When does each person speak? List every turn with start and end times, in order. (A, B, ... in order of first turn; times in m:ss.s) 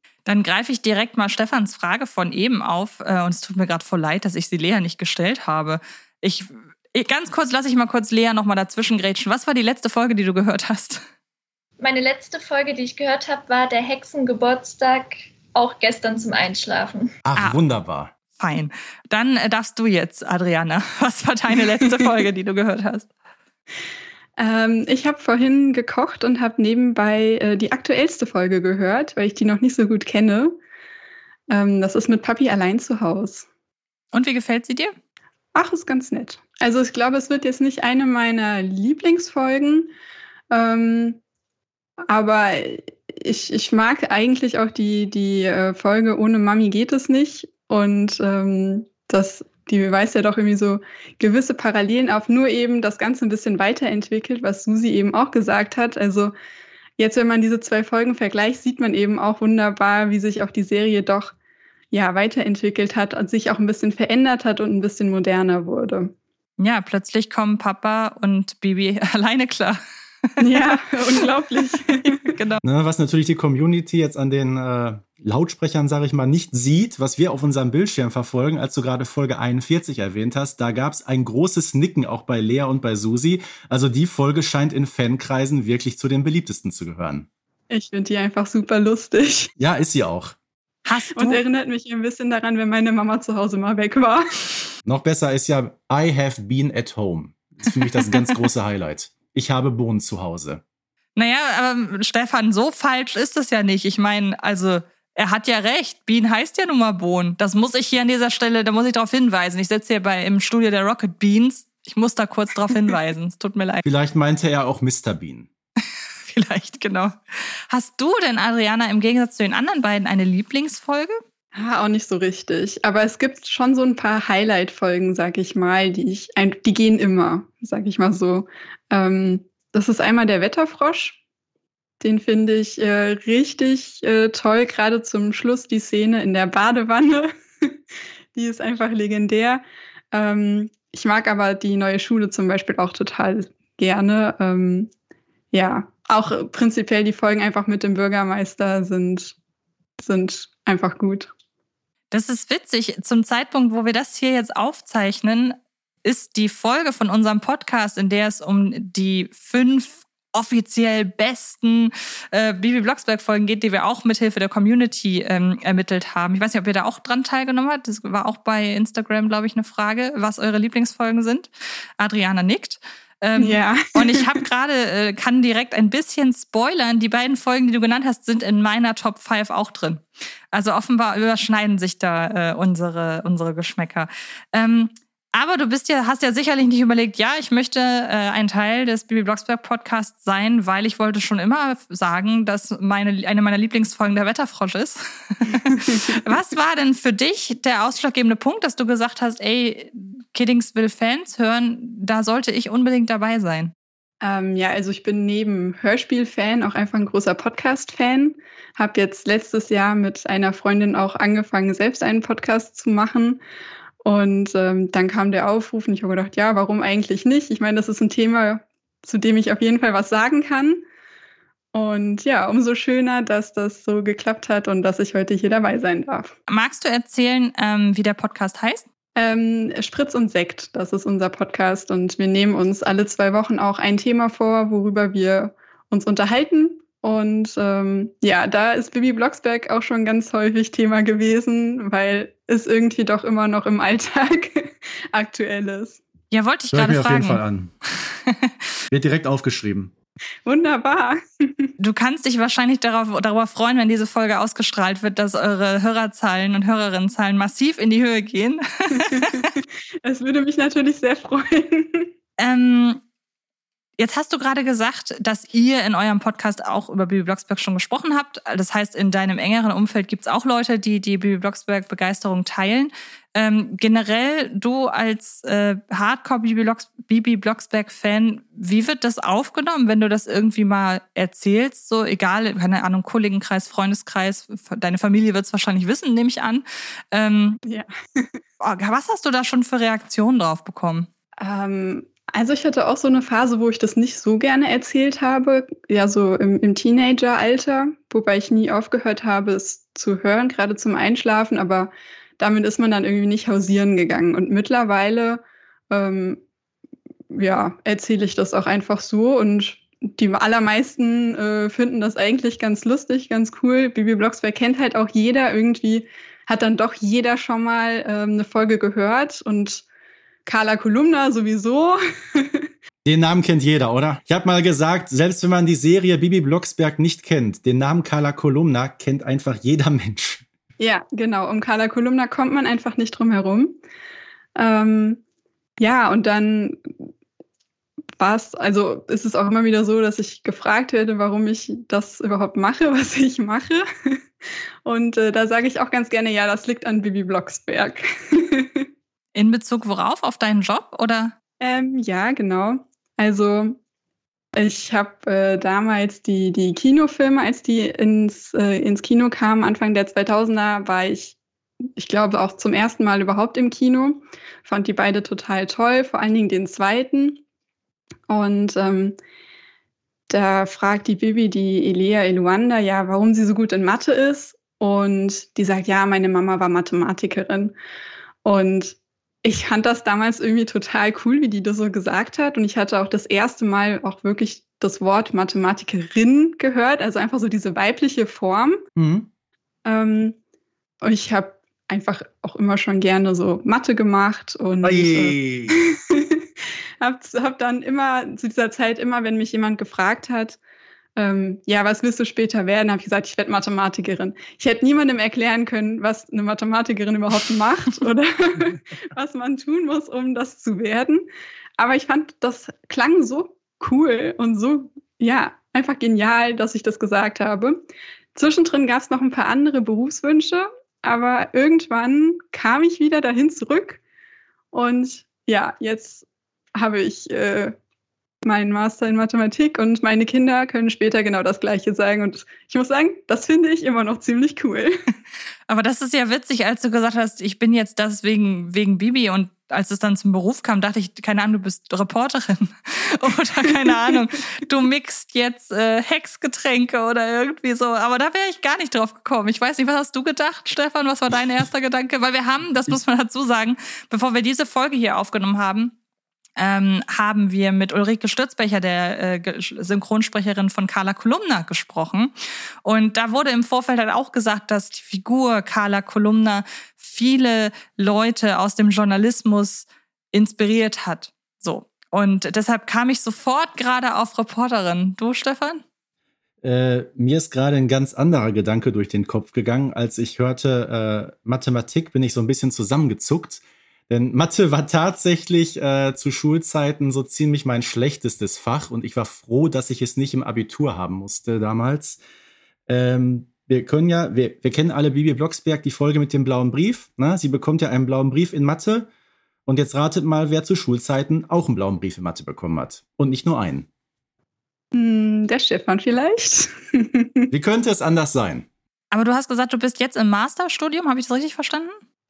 0:00.2-0:11.0 A
0:11.8-0:17.1 B
0:17.2-0:18.1 C
0:18.4-0:23.1 A
0:24.4-0:30.6 D
0:31.5-0:33.5 D
0:34.1-0:34.9 A
0:35.5-0:39.9 D
0:40.5-0:41.2 D
0:42.1-0:56.3 D
0:57.0-1:01.3 D
1:01.9-1:06.1 D
1:06.6-1:09.8 A
1:10.4-1:12.6 A
1:10.4-1:12.2 D
1:12.6-1:27.3 C
1:27.7-1:29.5 D
1:29.6-1:30.4 C
1:30.8-1:31.4 A
1:31.1-1:34.3 D
1:34.8-1:40.6 C
1:41.2-1:53.8 A
1:53.8-1:55.5 C
1:56.3-1:57.1 A
1:57.7-2:01.2 A
2:01.5-2:11.2 D
2:12.0-2:17.8 D
2:18.3-2:24.9 D
2:25.5-2:29.3 D
2:30.0-2:31.3 D
2:32.1-3:23.7 A
2:53.4-2:54.4 D
3:15.6-3:16.0 D
3:24.2-3:33.4 D
3:34.0-3:40.8 D
3:41.7-3:46.3 D
3:46.5-3:48.8 A
3:49.2-4:06.0 D
4:06.3-4:07.4 A
4:06.7-4:07.7 C
4:08.0-4:08.5 A
4:08.9-4:09.9 C
4:10.4-4:11.7 D
4:11.8-4:19.5 A
4:20.0-4:22.1 D
4:22.4-4:23.0 A
4:24.0-4:47.6 A
4:47.7-4:48.4 D
4:48.6-4:51.1 A
4:51.4-5:06.4 D
5:07.3-5:19.8 D
5:20.4-5:22.7 D
5:23.0-5:30.4 C
5:30.8-5:33.8 D
5:34.6-5:35.2 D
5:35.8-5:36.9 D
5:38.2-5:44.2 D
5:44.8-5:48.8 D
5:49.3-5:51.3 A
5:51.6-5:53.8 D
5:54.6-6:01.4 D
6:02.0-6:07.4 D
6:08.3-6:09.2 D
6:10.3-6:17.7 D
6:18.4-6:28.8 D
6:29.0-6:29.3 C
6:29.8-6:30.4 D
6:31.0-6:36.5 D
6:34.8-6:35.8 C
6:37.0-6:40.6 D
6:41.2-6:51.2 D
6:51.8-7:04.0 D
7:04.7-7:06.2 D
7:06.8-7:07.8 D
7:08.4-7:15.0 D
7:15.7-7:35.9 A
7:36.6-7:42.3 A
7:42.8-7:55.8 A
7:56.6-8:12.2 C
8:12.9-8:19.1 C
8:19.6-8:23.9 C
8:24.9-8:27.5 D
8:27.5-8:28.7 C
8:29.1-8:32.0 A